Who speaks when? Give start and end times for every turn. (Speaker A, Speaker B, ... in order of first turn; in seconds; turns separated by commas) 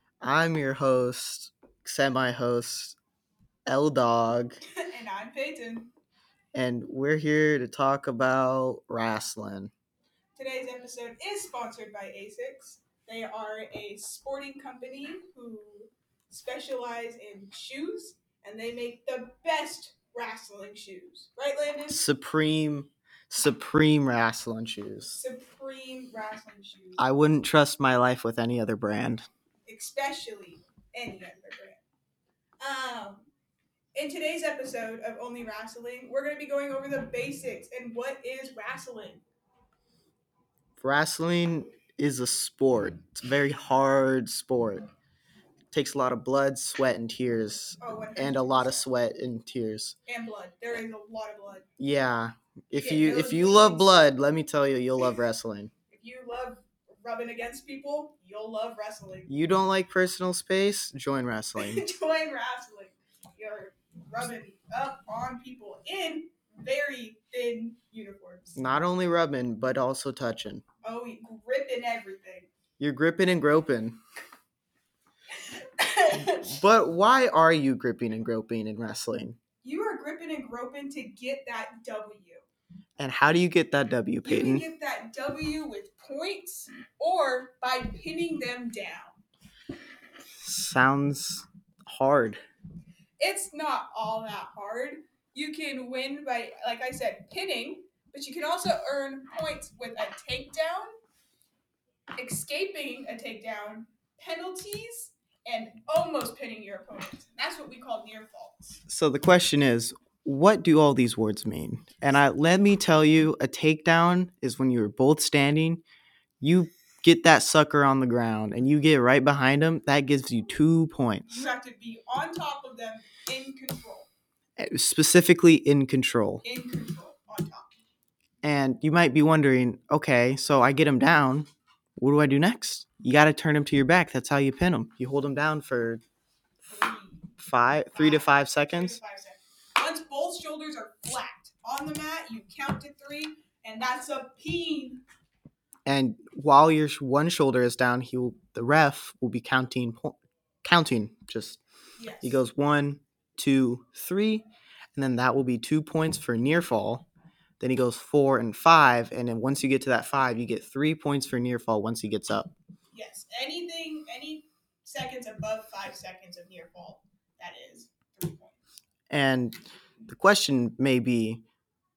Speaker A: 0.2-3.0, Speaker A: 3.7-4.6, Speaker B: 4.8-5.9, Speaker A: 6.5-9.7, Speaker B: 10.3-22.0, Speaker A: 21.9-25.2, Speaker B: 25.1-27.0, Speaker A: 27.0-29.2, Speaker B: 29.7-31.8, Speaker B: 32.6-33.3, Speaker B: 33.9-39.2, Speaker A: 40.8-44.8, Speaker A: 45.7-49.9, Speaker B: 47.8-48.8, Speaker B: 50.1-51.6, Speaker A: 51.8-55.7, Speaker B: 52.7-54.1, Speaker B: 55.9-59.3, Speaker A: 59.3-61.8, Speaker B: 61.6-68.6, Speaker A: 68.5-70.6, Speaker B: 70.8-72.5, Speaker A: 72.8-74.0, Speaker B: 75.8-76.6, Speaker A: 76.2-79.4, Speaker B: 79.6-82.5, Speaker A: 83.0-84.6, Speaker B: 84.2-89.2, Speaker A: 90.4-92.4, Speaker B: 93.2-100.9, Speaker B: 102.2-108.8, Speaker A: 108.9-115.8, Speaker A: 116.4-121.5, Speaker B: 121.3-124.1, Speaker A: 124.6-126.4, Speaker B: 126.4-127.8, Speaker A: 128.4-136.0, Speaker B: 136.7-137.3, Speaker A: 137.4-139.0, Speaker B: 137.9-145.0, Speaker A: 145.8-151.6, Speaker B: 152.0-152.4, Speaker A: 152.2-157.1, Speaker A: 157.6-162.5, Speaker B: 162.9-168.6, Speaker A: 169.1-171.4